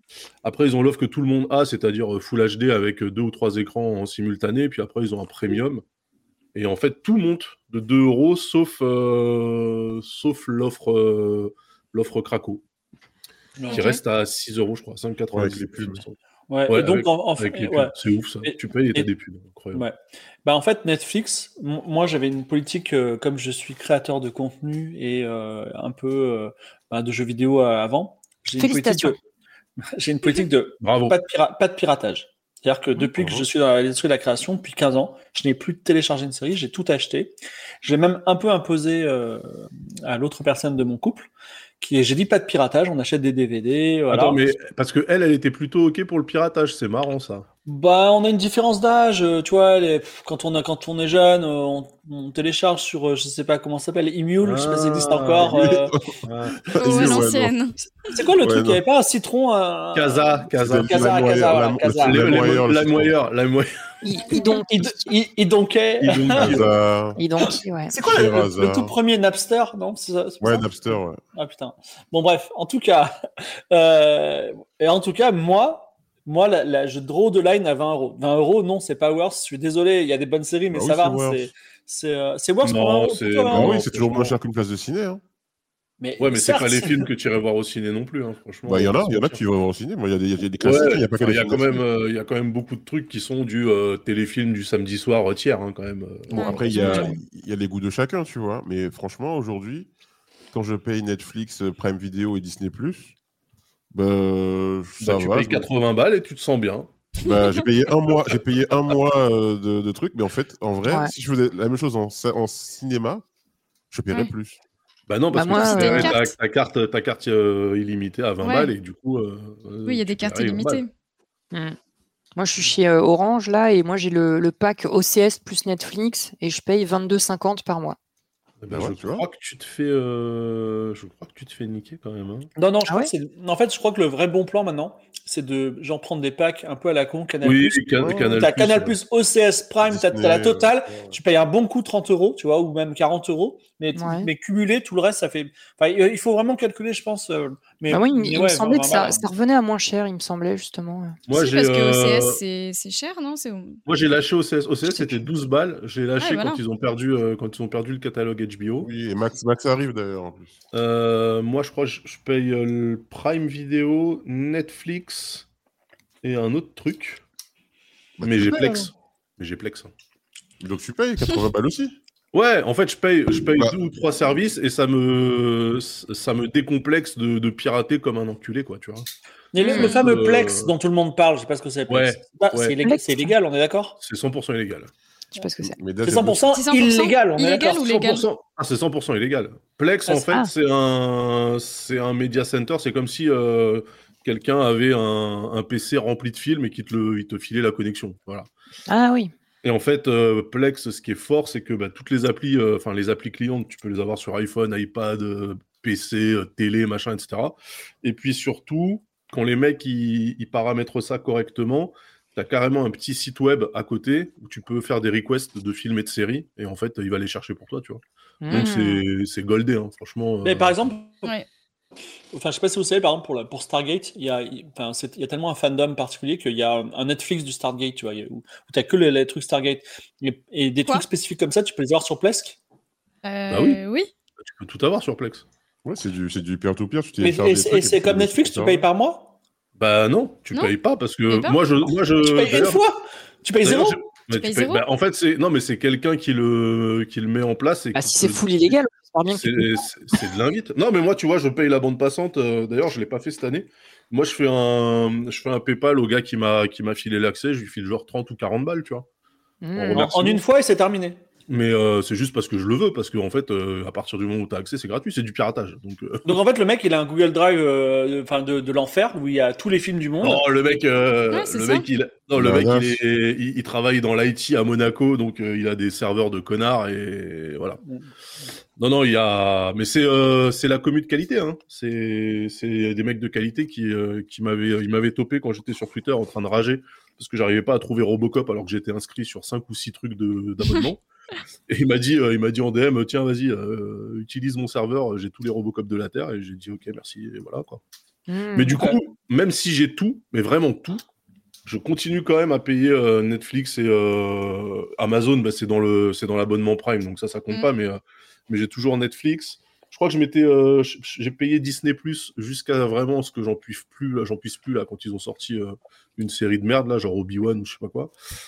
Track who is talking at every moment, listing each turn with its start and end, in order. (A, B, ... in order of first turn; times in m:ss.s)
0:00.4-0:05.8 A
0:06.5-0:12.6 A
0:13.6-0:13.9 B
0:13.7-0:14.0 C
0:13.7-0:16.2 A
0:15.3-0:16.0 D
0:16.5-0:19.1 B
0:16.7-0:19.8 A
0:19.7-0:29.2 B
0:28.6-0:29.2 E
0:29.9-0:44.5 B
0:30.8-0:31.2 A
0:33.2-0:33.5 D
0:44.1-0:47.5 A
0:47.7-0:56.0 B
0:54.4-0:57.2 A
0:55.6-0:57.5 D
0:56.7-0:57.8 C
0:58.0-1:02.5 B
0:58.4-0:58.8 D
1:00.0-1:01.1 A
1:00.6-1:03.2 D
1:02.0-1:03.7 A
1:04.0-1:05.1 E
1:04.4-1:06.7 B
1:06.0-1:06.7 A
1:06.4-1:07.2 D
1:07.2-1:07.9 E
1:07.4-1:13.2 B
1:08.0-1:09.0 D
1:10.4-1:11.2 D
1:13.7-1:23.8 B
1:20.7-1:21.5 D
1:22.6-1:24.4 A
1:23.5-1:25.2 D
1:26.0-1:27.1 B
1:26.2-1:29.4 A
1:28.7-1:31.8 D
1:30.6-1:37.0 A
1:36.3-1:37.2 C
1:36.3-1:39.9 D
1:40.5-1:43.1 D
1:43.9-1:45.7 D
1:45.0-1:46.9 A
1:47.2-1:47.6 C
1:47.2-1:53.2 D
1:50.9-1:51.1 E
1:53.9-1:54.6 D
1:55.1-2:00.8 A
1:55.3-1:56.3 E
1:55.5-1:56.2 C
1:58.4-1:58.7 C
1:59.9-2:00.9 C
2:02.4-2:08.0 E
2:08.6-2:12.5 A
2:08.7-2:09.2 D
2:12.6-2:29.2 B
2:17.4-2:19.0 A
2:18.0-2:18.5 D
2:19.8-2:21.2 D
2:24.0-2:24.3 E
2:27.9-2:31.2 E
2:31.3-2:32.4 A
2:31.3-2:33.8 C
2:33.9-2:38.9 A
2:36.2-2:36.6 C
2:38.8-2:40.5 D
2:40.7-2:45.5 A
2:46.2-2:47.2 A
2:48.2-2:48.9 D
2:48.2-2:49.9 A
2:50.6-2:52.0 D
2:52.3-2:59.1 A
2:53.5-2:53.8 D
2:59.5-3:04.0 B
2:59.6-3:00.1 C
2:59.7-3:00.0 E
2:59.8-3:00.7 A
3:01.9-3:02.8 A
3:02.8-3:03.3 E
3:04.0-3:04.9 A
3:05.4-3:05.8 E
3:05.6-3:06.5 D
3:06.0-3:07.8 B
3:06.5-3:08.3 C
3:07.7-3:18.5 A
3:10.2-3:10.5 E
3:18.9-3:19.3 E
3:19.6-3:40.9 A
3:38.4-3:39.0 E
3:40.4-3:41.3 B
3:42.3-3:52.6 B
3:53.2-3:54.1 C
3:53.5-3:53.8 A
3:54.4-3:55.5 A
3:55.8-3:58.9 D
3:57.2-3:59.3 B
3:59.8-4:02.8 A
4:00.5-4:01.6 C
4:02.2-4:04.0 B
4:03.6-4:08.8 A
4:04.3-4:04.8 C
4:07.9-4:10.2 E
4:09.3-4:19.1 A
4:19.6-4:20.1 E
4:19.8-4:20.4 A
4:19.9-4:21.2 B
4:21.5-4:26.4 A
4:26.3-4:30.5 B
4:30.2-4:37.8 A
4:31.3-4:31.9 C
4:32.4-4:33.0 D
4:37.8-4:38.1 B
4:38.8-4:51.0 A
4:51.7-4:57.8 A
4:58.3-4:58.9 E
4:58.6-5:01.0 A
4:58.7-4:59.0 B
5:01.7-5:18.1 A